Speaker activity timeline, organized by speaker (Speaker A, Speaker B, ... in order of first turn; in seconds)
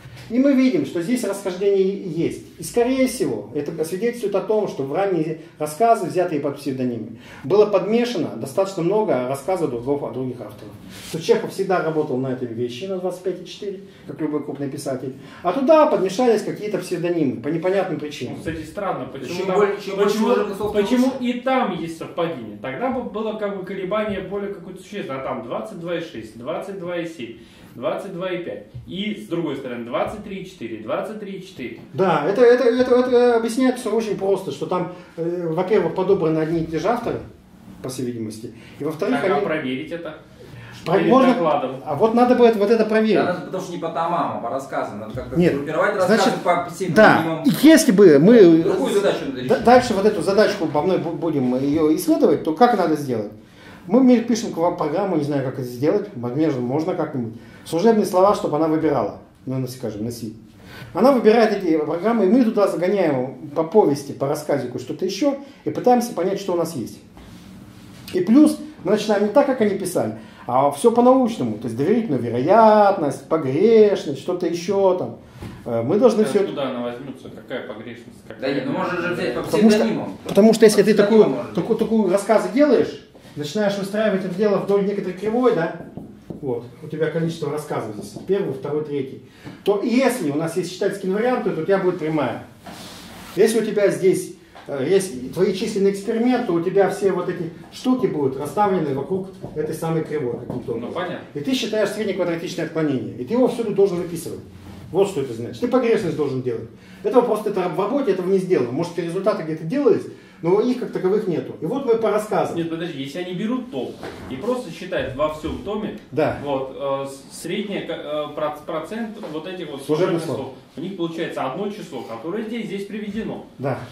Speaker A: 0.3-18.4, 31.9-37.2, 37.8-39.5, 40.8-43.3, 45.4-53.3, 53.9-60.4, 60.9-67.0, 68.1-76.5, 79.5-85.8, 86.4-92.4, 93.3-112.6, 116.1-116.4, 119.9-120.5, 123.6-123.8
Speaker B: 18.2-31.8, 39.1-40.2, 40.8-41.8, 76.2-79.6, 100.7-101.2, 112.5-123.5
Speaker C: 19.2-21.2, 43.1-49.7, 78.4-81.7